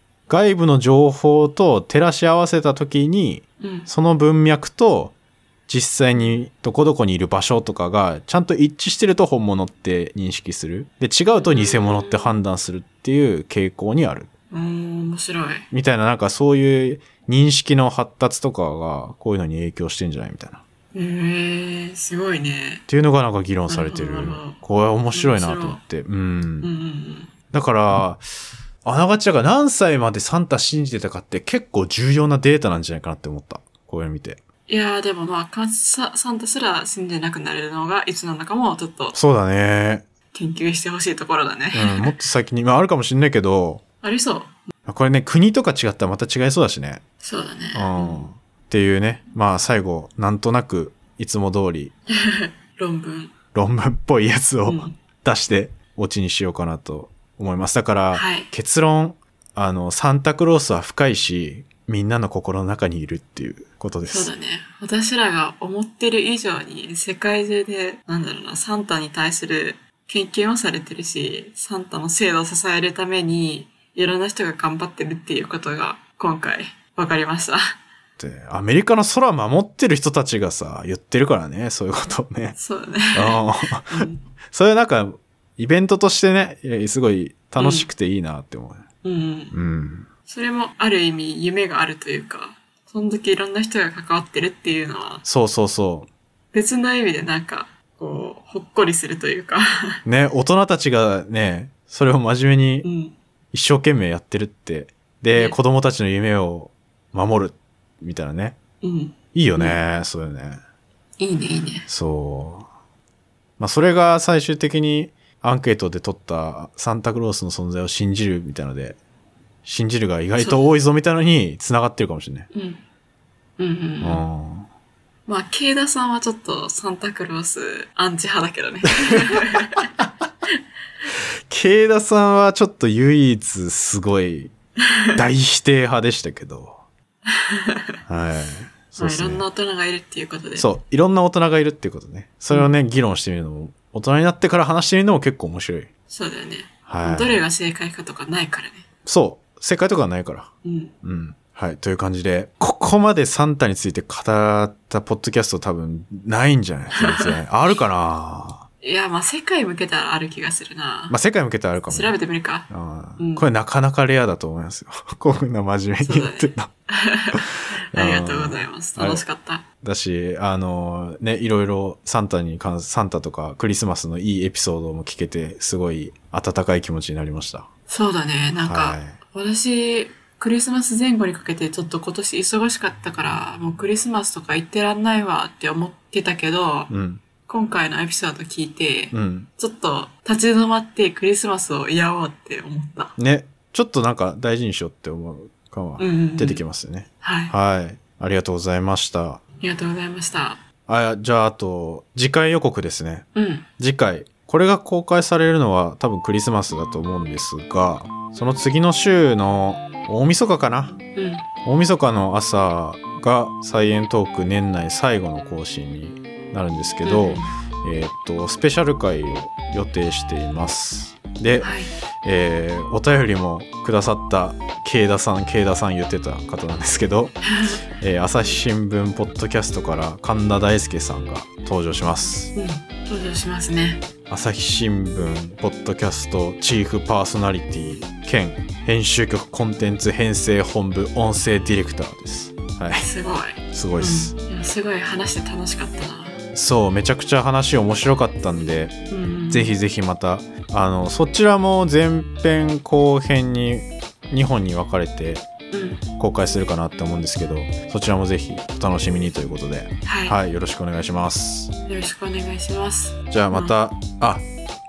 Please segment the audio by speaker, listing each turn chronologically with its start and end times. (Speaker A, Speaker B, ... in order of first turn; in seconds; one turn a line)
Speaker A: 0.3-5.1
Speaker B: 3.6-3.9
Speaker A: 5.7-14.3
Speaker B: 6.1-6.4
Speaker B: 11.3-12.3
Speaker B: 14.5-15.7
Speaker A: 15.7-20.6
Speaker B: 20.9-22.8
Speaker A: 22.9-26.7
Speaker B: 23.7-24.6
Speaker B: 25.1-25.8
Speaker B: 26.6-27.3
Speaker A: 27.5-28.2
Speaker A: 28.8-34.4
Speaker B: 34.7-39.1
Speaker A: 39.1-40.0
Speaker B: 40.3-42.2
Speaker A: 41.7-43.8
Speaker B: 44.0-44.6
Speaker A: 44.9-47.0
Speaker B: 47.2-48.3
Speaker A: 47.7-51.9
Speaker B: 52.1-53.3
Speaker A: 53.5-64.3
Speaker B: 54.6-55.0
Speaker B: 58.1-58.5
Speaker B: 64.0-77.8
Speaker A: 78.2-82.5
Speaker B: 82.5-84.2
Speaker A: 83.1-88.8
Speaker B: 87.6-87.9
Speaker B: 89.0-89.5
Speaker A: 89.5-90.1
Speaker B: 90.3-95.2
Speaker A: 95.2-96.1
Speaker B: 96.5-100.0
Speaker A: 100.0-102.9
Speaker B: 102.8-103.2
Speaker A: 103.5-108.5
Speaker B: 105.3-105.6
Speaker B: 108.8-109.8
Speaker A: 109.3-110.6
Speaker B: 111.2-111.9
Speaker A: 111.9-112.7
Speaker A: 113.6-119.0
Speaker A: 119.6-122.5
Speaker B: 122.5-122.8
Speaker B: 123.6-124.2
Speaker A: 124.0-124.7
Speaker B: 125.3-129.9
Speaker A: 129.1-129.6
Speaker A: 131.5-134.5
Speaker A: 135.1-136.8
Speaker B: 137.3-138.0
Speaker A: 138.1-139.4
Speaker B: 138.9-140.7
Speaker A: 140.6-145.9
Speaker B: 142.5-142.8
Speaker B: 146.1-148.8
Speaker A: 146.9-147.4
Speaker A: 149.1-150.5
Speaker B: 150.6-150.9
Speaker A: 151.0-158.6
Speaker B: 156.9-157.3
Speaker B: 158.8-161.2
Speaker A: 161.1-162.1
Speaker B: 161.9-163.5
Speaker A: 162.7-166.7
Speaker B: 166.0-169.6
Speaker A: 167.3-169.2
Speaker A: 169.8-177.7
Speaker B: 177.9-186.9
Speaker A: 178.6-179.2
Speaker A: 186.9-187.2
Speaker B: 187.5-193.1
Speaker A: 189.1-189.5
Speaker A: 193.2-199.4
Speaker B: 196.0-196.6
Speaker B: 197.2-197.5
Speaker B: 199.6-200.6
Speaker A: 200.9-203.2
Speaker B: 203.3-203.7
Speaker A: 203.8-211.0
Speaker B: 211.1-211.4
Speaker A: 211.6-232.5
Speaker B: 217.0-217.5
Speaker B: 221.6-221.9
Speaker B: 227.5-227.8
Speaker B: 232.5-234.1
Speaker A: 234.3-243.1
Speaker B: 242.9-246.4
Speaker A: 243.7-244.3
Speaker A: 246.5-248.9
Speaker B: 249.1-249.8
Speaker A: 249.5-255.4
Speaker B: 255.7-256.1
Speaker A: 256.2-261.7
Speaker B: 260.1-260.4
Speaker B: 261.9-263.7
Speaker A: 263.3-264.4